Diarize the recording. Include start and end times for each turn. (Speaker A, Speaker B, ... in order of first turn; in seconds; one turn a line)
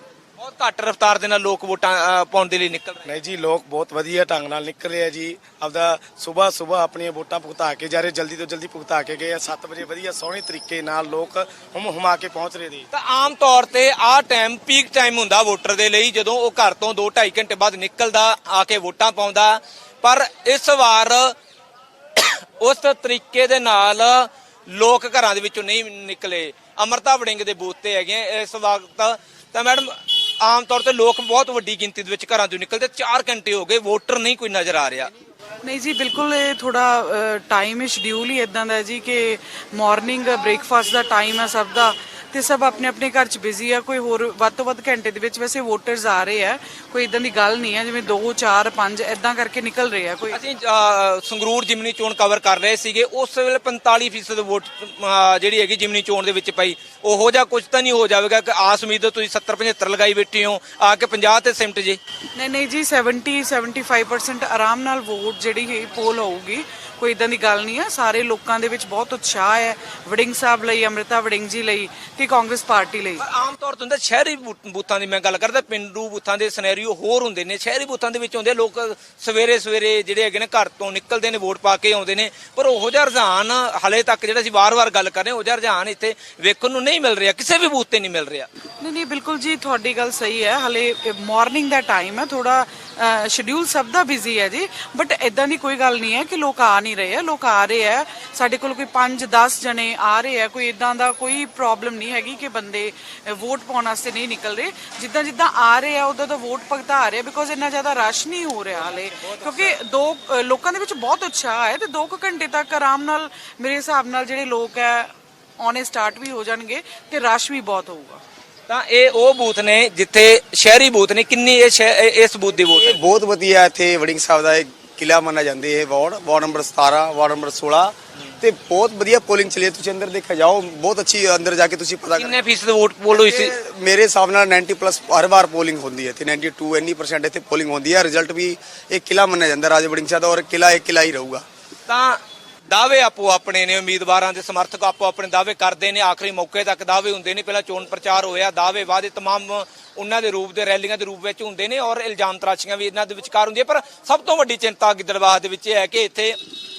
Speaker A: 0.4-3.1
Speaker B: 3.0-12.8
Speaker A: 12.9-21.3
Speaker A: 22.2-35.1
Speaker C: 35.6-50.4
Speaker A: 50.3-62.0
Speaker C: 62.4-73.2
Speaker A: 73.2-88.5
Speaker C: 88.8-118.2
Speaker A: 118.7-123.0
Speaker D: 122.7-132.4
Speaker A: 132.1-133.5
Speaker D: 133.1-141.4
Speaker A: 141.9-142.2
Speaker A: 142.7-156.4